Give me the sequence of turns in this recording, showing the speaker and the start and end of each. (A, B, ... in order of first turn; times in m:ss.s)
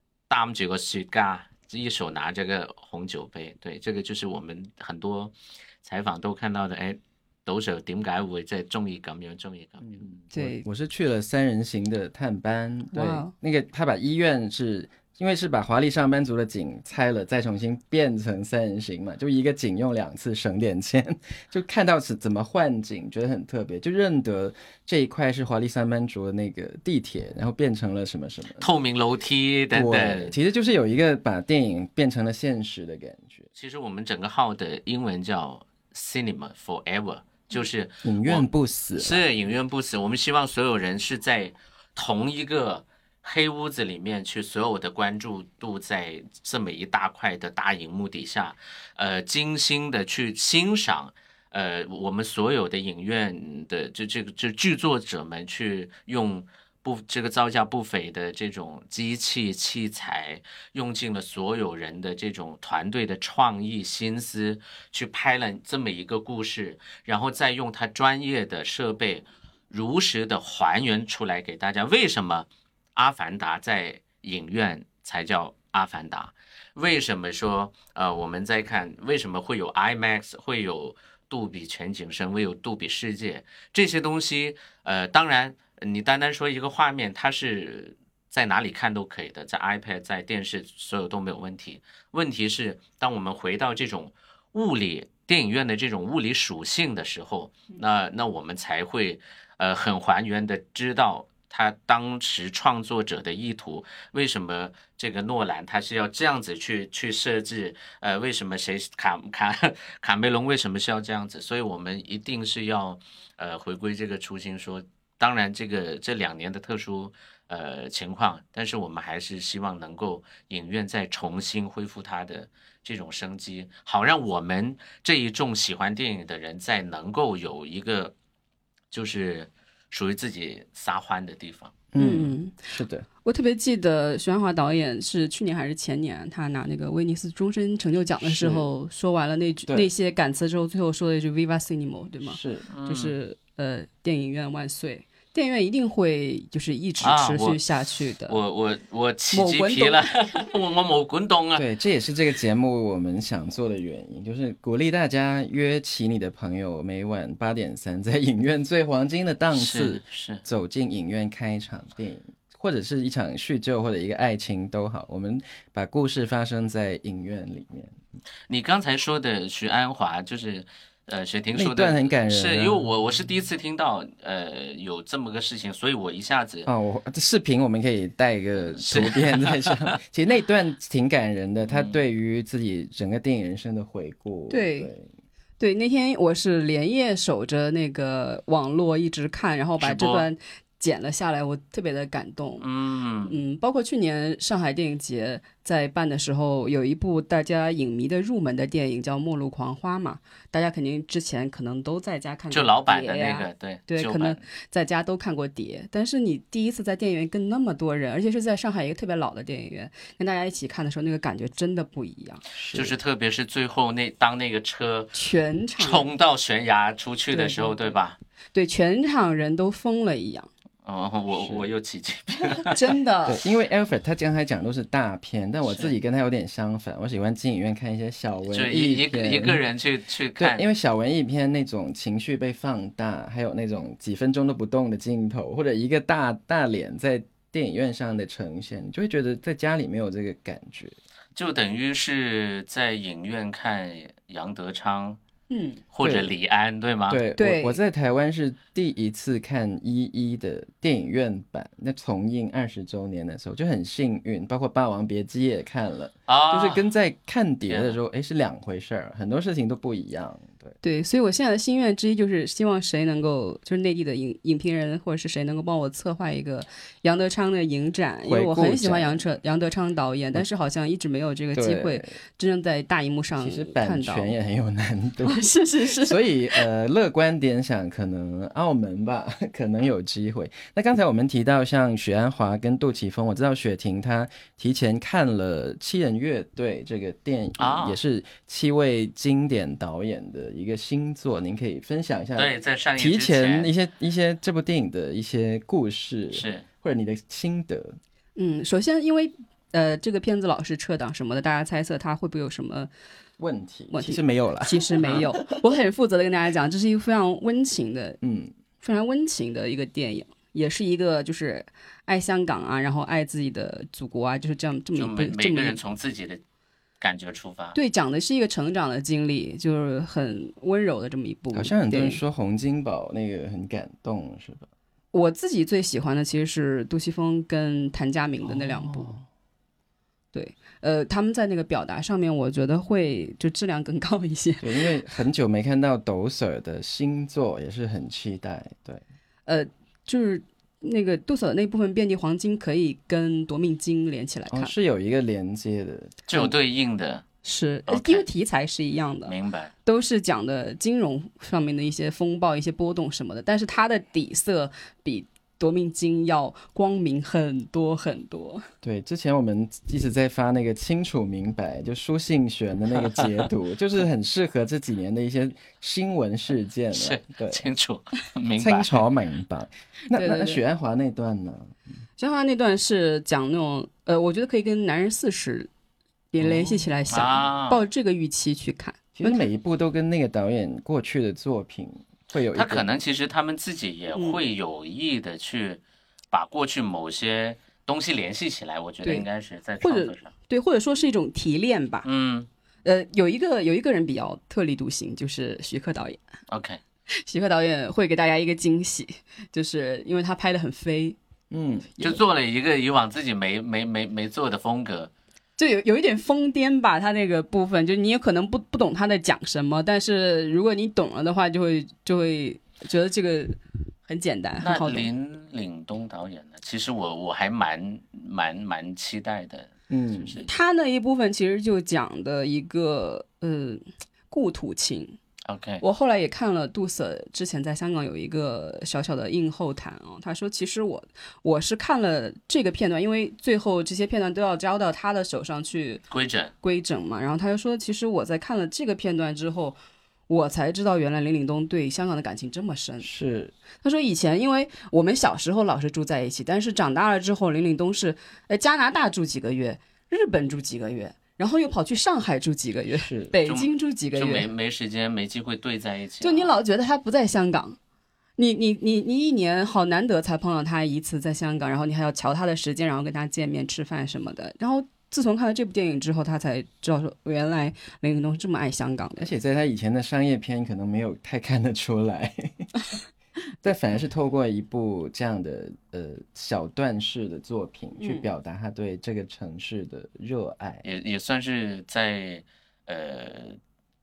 0:00.3-0:10.2 A
0:09.8-0:28.7 B
0:10.3-0:10.6 C
0:12.9-0:13.3 C
0:28.6-0:30.3 A
0:29.7-0:33.5 B
0:33.6-2:08.1 A
0:38.0-0:39.2 B
2:08.9-2:11.8 A
2:11.9-2:13.0 B
2:12.0-2:12.6 C
2:13.2-2:28.4 C
2:18.2-2:18.7 B
2:22.2-2:22.7 B
2:22.7-2:23.2 A
2:27.0-2:27.6 A
2:28.3-2:31.6 A
2:29.3-2:30.0 C
2:31.6-2:48.0 B
2:39.5-2:40.4 A
2:48.5-2:56.7 A
2:51.5-2:52.8 B
2:56.6-3:05.1 B
2:58.7-2:59.9 A
3:01.7-3:02.0 A
3:04.5-3:04.9 C
3:05.6-3:12.7 C
3:09.8-3:10.3 A
3:12.6-3:13.4 A
3:13.2-3:32.4 C
3:22.5-3:24.4 A
3:32.5-3:32.9 B
3:32.7-3:35.1 A
3:35.1-3:36.1 C
3:35.8-3:38.2 A
3:37.3-3:37.9 C
3:38.5-3:40.5 C
3:40.8-3:42.9 A
3:41.4-3:41.6 B
3:42.6-3:43.4 C
3:43.2-3:49.6 B
3:45.6-3:45.9 A
3:48.5-3:50.6 A
3:50.4-4:01.0 B
4:01.3-4:05.2 A
4:05.5-4:05.8 C
4:05.9-4:07.2 A
4:06.0-4:06.3 B
4:07.1-4:20.7 B
4:07.4-4:07.8 C
4:16.3-4:16.9 A
4:17.7-4:18.0 A
4:20.8-4:34.4 C
4:28.2-4:29.2 B
4:31.5-4:32.1 B
4:33.4-4:58.0 B
4:35.2-4:36.6 C
4:47.6-4:48.0 A
4:52.4-4:53.7 A
4:56.3-4:56.6 A
4:58.4-5:02.9 C
5:03.4-5:05.4 B
5:03.9-5:08.2 C
5:08.2-5:08.5 B
5:08.8-5:15.8 C
5:14.9-5:16.4 A
5:17.0-5:17.8 A
5:17.7-5:22.2 C
5:21.5-5:24.7 B
5:25.1-5:29.1 C
5:28.4-5:29.2 B
5:30.3-5:34.8 C
5:34.6-5:39.0 B
5:39.5-5:44.7 C
5:44.5-5:46.5 B
5:46.3-5:47.2 A
5:47.4-5:58.7 C
5:47.9-5:48.2 A
5:49.2-5:49.7 A
5:58.8-6:07.7 B
6:06.9-6:09.0 A
6:08.6-6:11.8 B
6:10.1-6:10.6 C
6:12.2-6:15.7 C
6:16.3-6:19.4 C
6:16.4-6:16.9 B
6:17.1-6:17.8 A
6:19.1-6:22.9 B
6:22.5-6:30.3 A
6:24.1-6:24.4 C
6:29.8-6:32.1 C
6:32.0-6:32.5 A
6:32.8-6:36.2 C
6:36.5-6:36.8 A
6:37.1-6:41.2 C
6:41.5-6:41.9 B
6:42.0-6:45.1 A
6:45.6-6:55.1 C
6:54.6-6:59.7 A
6:59.9-7:00.4 B
7:00.2-7:00.5 A
7:00.4-7:05.2 C
7:05.4-7:05.8 A
7:05.8-7:16.0 C
7:16.1-7:16.5 A
7:16.6-7:19.8 C
7:20.3-7:23.1 C
7:23.0-7:23.5 B
7:23.8-7:34.5 C
7:32.9-7:33.3 B
7:33.4-7:36.5 A
7:36.2-7:37.8 C
7:38.4-7:49.3 C
7:49.2-7:52.7 B
7:53.6-8:00.8 B
7:58.0-7:58.3 C
8:00.8-8:03.6 A